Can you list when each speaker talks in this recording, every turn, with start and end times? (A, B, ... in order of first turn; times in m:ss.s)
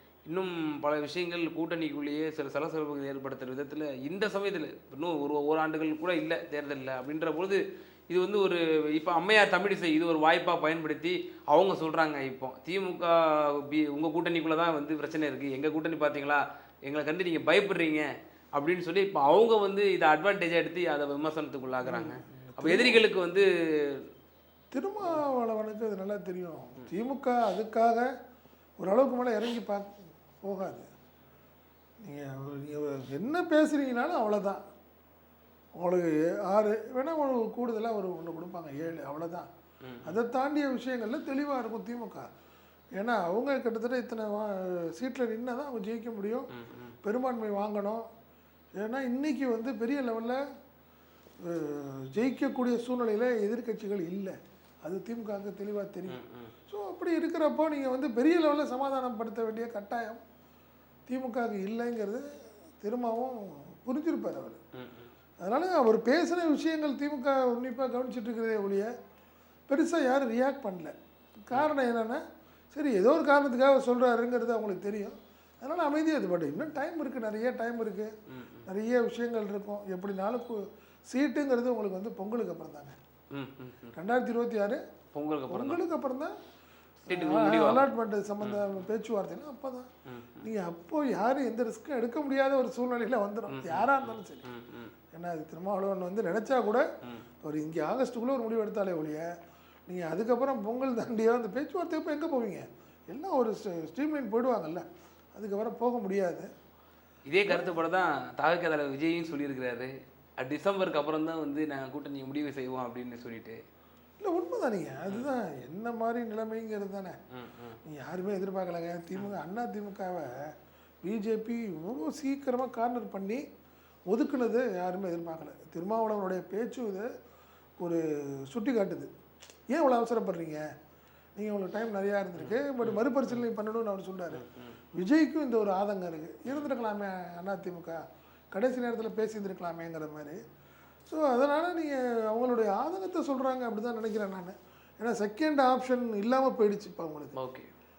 0:00.3-0:24.0 A
0:21.8-0:23.0 B
0:24.7-0:28.1 B
0:28.8-0:30.9 B
0:32.0-0:34.6 B
0:35.8-0:39.5 B
0:39.8-0:40.2 A
0:40.1-0:42.3 B
0:43.0-0:46.5 B
0:46.5-0:47.0 A
0:47.0-0:48.0 B
0:48.8-0:50.4 B
0:51.5-0:56.2 B
0:56.1-0:56.5 A
0:56.7-1:00.2 B
1:01.1-1:02.2 B
1:02.8-1:04.6 B
1:04.8-1:05.1 A
1:05.4-1:08.9 B
1:09.7-1:10.9 B
1:11.5-1:18.1 B
1:18.3-1:18.6 A
1:18.7-1:23.0 B
1:23.3-1:23.9 A
1:24.0-1:24.8 B
1:25.1-1:25.8 A
1:25.5-1:26.3 B
1:27.1-1:27.9 A
1:27.1-1:29.9 B
1:30.1-1:30.5 A
1:30.4-1:34.5 B
1:33.5-1:34.9 A
1:35.1-1:36.8 B
1:37.4-1:39.3 B
1:39.9-1:46.5 B
1:47.3-1:53.6 A
1:47.5-1:47.8 B
1:54.2-1:57.2 B
1:57.3-1:57.8 A
1:57.9-2:00.3 B
2:01.0-2:03.4 B
2:04.1-2:07.1 B
2:07.8-2:09.1 B
2:09.7-2:10.6 B
2:11.4-2:14.4 B
2:12.4-2:13.4 A
2:14.3-2:14.8 A
2:15.0-2:18.0 B
2:18.5-2:20.4 B
2:21.1-2:27.4 B
2:27.4-2:27.7 A